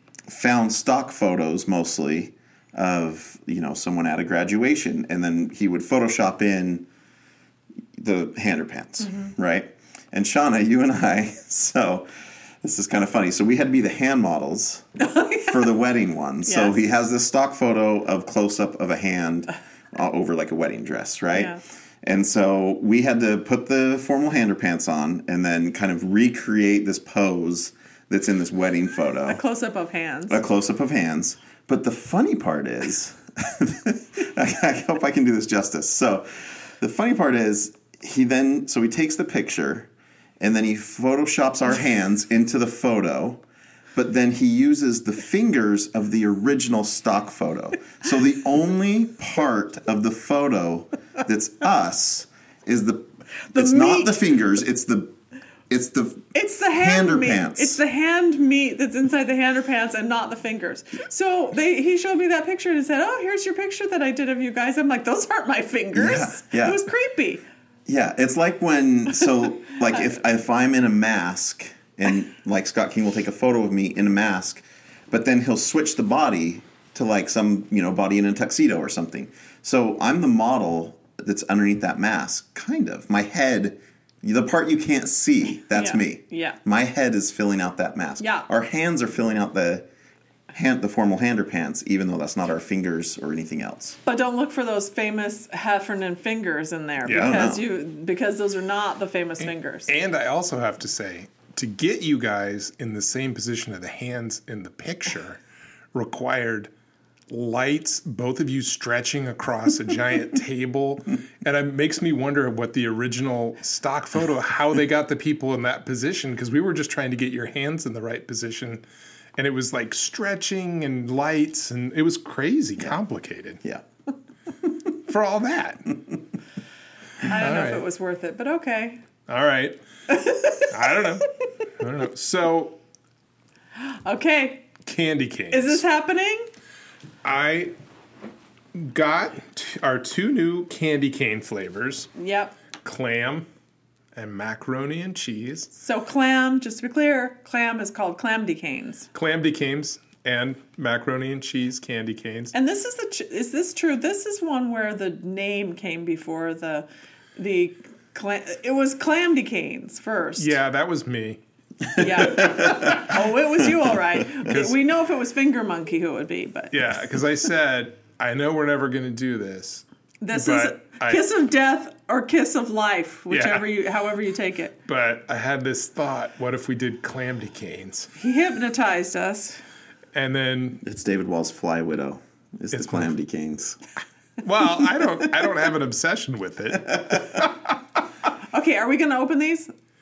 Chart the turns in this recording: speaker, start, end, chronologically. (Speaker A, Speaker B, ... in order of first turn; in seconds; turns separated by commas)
Speaker A: 0.3-6.8, Speaker A: 8.0-12.1, Speaker A: 12.6-14.8, Speaker B: 15.0-15.6, Speaker A: 15.4-29.4, Speaker B: 16.5-16.7, Speaker B: 29.3-30.4, Speaker A: 30.3-39.9, Speaker A: 40.4-43.4, Speaker A: 43.9-55.1, Speaker B: 53.5-54.1, Speaker A: 55.7-57.8, Speaker B: 56.3-67.4, Speaker A: 65.9-66.8, Speaker A: 67.9-89.8, Speaker B: 85.7-86.6, Speaker B: 88.2-88.5, Speaker A: 90.5-94.0, Speaker B: 94.0-99.9, Speaker C: 97.0-97.4, Speaker A: 97.1-97.6, Speaker C: 99.4-105.4, Speaker C: 105.9-106.7, Speaker C: 107.3-118.8, Speaker C: 119.4-123.6, Speaker C: 125.1-126.0, Speaker B: 127.2-129.0, Speaker C: 127.3-127.8, Speaker C: 129.3-129.8, Speaker B: 130.1-130.7, Speaker C: 130.7-132.8, Speaker B: 133.8-134.7, Speaker C: 134.8-135.8, Speaker B: 135.5-136.5, Speaker C: 137.2-137.7, Speaker C: 138.7-142.1, Speaker B: 142.1-142.6, Speaker C: 142.8-143.5, Speaker C: 144.1-145.7, Speaker B: 145.7-149.1, Speaker C: 149.1-152.5, Speaker B: 152.5-160.5, Speaker C: 160.4-161.4, Speaker B: 161.9-166.8, Speaker A: 162.2-163.1, Speaker C: 164.5-164.8, Speaker C: 166.7-171.2, Speaker B: 170.2-174.7, Speaker C: 173.3-173.7, Speaker C: 174.8-178.1, Speaker B: 178.2-179.6, Speaker C: 180.1-180.8, Speaker A: 180.8-183.8, Speaker C: 182.7-183.1, Speaker C: 184.4-187.5, Speaker B: 188.5-189.7